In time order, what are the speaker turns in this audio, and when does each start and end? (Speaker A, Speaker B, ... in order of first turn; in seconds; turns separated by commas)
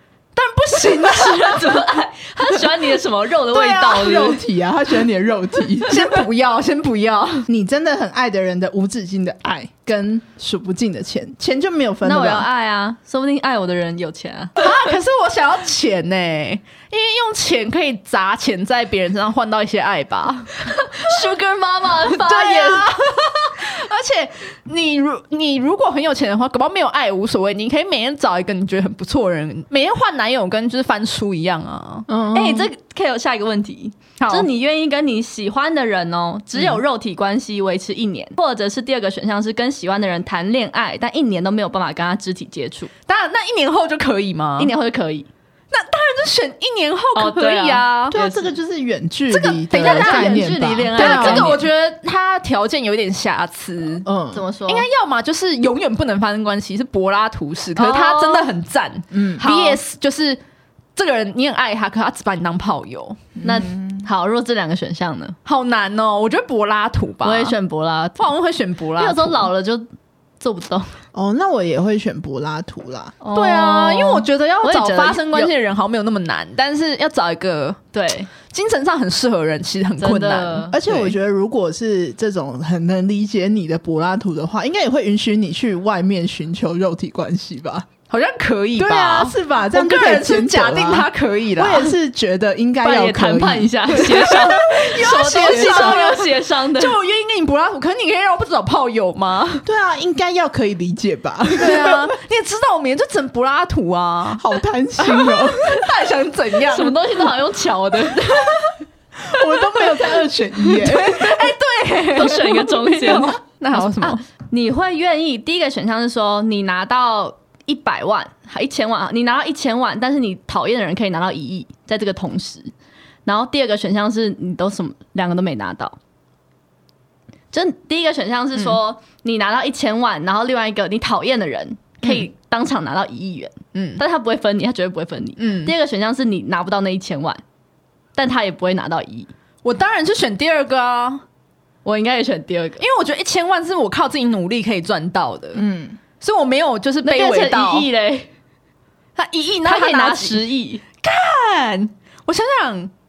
Speaker A: 0.4-1.8, Speaker B: 0.8-4.4, Speaker C: 3.5-6.1, Speaker A: 5.9-7.5, Speaker C: 7.5-12.5, Speaker B: 12.0-14.6, Speaker A: 14.6-20.6, Speaker B: 20.6-22.9, Speaker A: 22.1-32.1, Speaker C: 32.1-32.7, Speaker B: 32.3-42.9, Speaker A: 34.2-34.5, Speaker A: 43.1-44.7, Speaker B: 44.6-45.3, Speaker A: 45.7-48.2, Speaker B: 47.1-48.5, Speaker C: 48.1-51.6, Speaker A: 49.3-54.1, Speaker B: 49.8-51.6, Speaker C: 54.0-54.4, Speaker B: 54.3-54.9, Speaker A: 54.7-60.4, Speaker B: 57.8-58.5, Speaker C: 59.1-59.4, Speaker B: 59.4-59.8, Speaker A: 61.0-63.3, Speaker C: 63.4-64.0, Speaker B: 63.4-65.4, Speaker A: 65.5-67.5, Speaker B: 67.2-68.2, Speaker A: 68.2-69.5, Speaker B: 69.0-69.9, Speaker B: 70.4-71.0, Speaker C: 71.1-73.2, Speaker B: 73.2-75.5, Speaker A: 73.3-77.8, Speaker B: 77.9-78.3, Speaker A: 78.5-81.0, Speaker B: 80.0-80.8, Speaker C: 80.7-87.9, Speaker A: 88.1-91.9, Speaker C: 88.8-96.1, Speaker B: 92.8-97.0, Speaker A: 94.1-99.7, Speaker C: 99.7-102.2, Speaker A: 101.5-104.4, Speaker C: 104.4-105.8, Speaker A: 105.0-107.3, Speaker B: 106.7-108.8, Speaker C: 109.2-111.4, Speaker A: 110.7-114.2, Speaker B: 112.1-122.7, Speaker B: 123.3-126.0, Speaker B: 127.5-137.4, Speaker A: 133.8-134.0, Speaker A: 135.4-135.7, Speaker B: 138.2-139.3, Speaker A: 139.6-141.2, Speaker B: 141.8-142.8, Speaker A: 142.8-145.6, Speaker C: 145.6-146.0, Speaker A: 146.2-147.9, Speaker B: 147.0-148.3, Speaker A: 149.2-150.5, Speaker B: 149.6-150.8, Speaker A: 151.0-152.9